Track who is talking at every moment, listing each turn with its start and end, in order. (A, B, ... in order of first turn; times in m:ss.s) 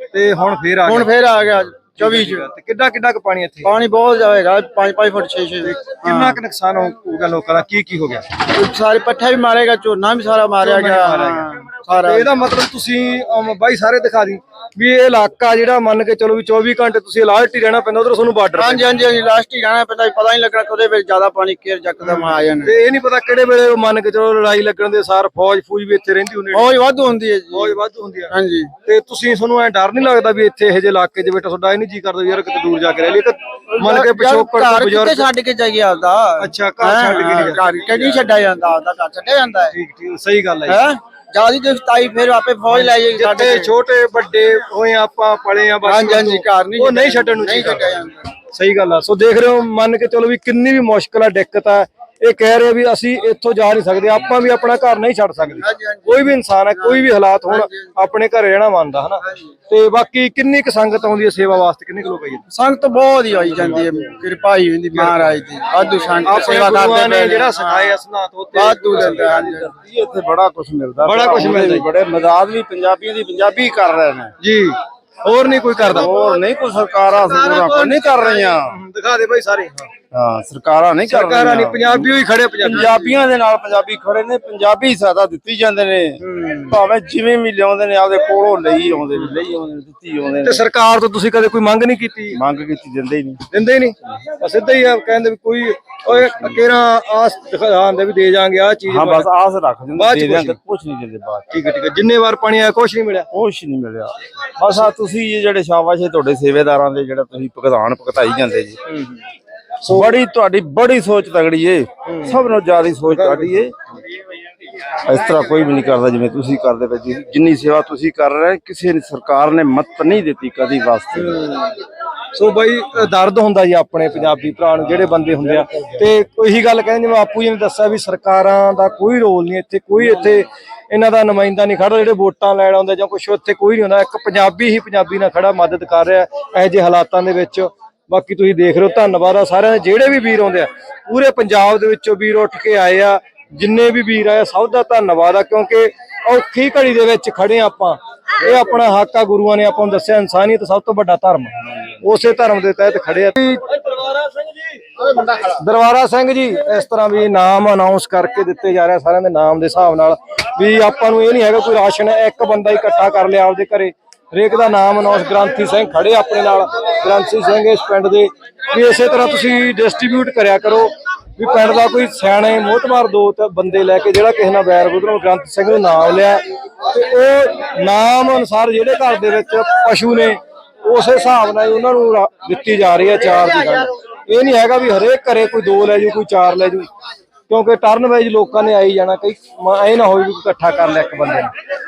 0:00.1-0:01.1 A
0:00.9-0:02.5 B
0:02.0-0:03.7 A
0:03.6-0:06.4 B
0:05.6-0:08.4 A
0:08.5-0:12.3 B
0:10.6-0:18.8 A
0:18.6-0:22.7 B
0:22.0-0:26.7 A
0:26.5-0:27.8 B
0:27.5-0:28.3 A
0:28.3-0:28.7 B
0:28.8-0:35.3 A
0:33.8-0:39.8 B
0:36.4-0:38.2 A
0:39.7-0:40.8 A
0:40.7-0:43.7 B
0:42.7-0:48.0 A
0:45.8-0:48.2 B
0:48.5-1:02.4 A
0:55.5-0:57.9 B
1:02.5-1:08.0 B
1:04.9-1:05.4 A
1:06.2-1:09.7 A
1:08.5-1:09.8 B
1:09.6-1:14.3 C
1:11.0-1:11.9 A
1:14.4-1:16.1 A
1:15.8-1:18.8 C
1:17.5-1:19.9 A
1:20.1-1:22.1 C
1:21.1-1:23.0 A
1:22.6-1:30.6 C
1:26.3-1:26.7 B
1:30.4-1:32.4 A
1:32.3-1:33.4 C
1:33.5-1:39.3 A
1:36.2-1:36.6 C
1:38.9-1:41.5 C
1:40.0-1:40.6 A
1:41.5-1:43.3 A
1:43.3-1:48.8 C
1:48.9-1:49.2 A
1:49.9-1:53.8 C
1:52.1-1:52.4 A
1:53.1-1:53.6 A
1:55.0-2:01.4 C
2:01.2-2:01.8 A
2:02.3-2:34.0 A
2:35.2-3:06.9 A
3:07.5-3:11.5 A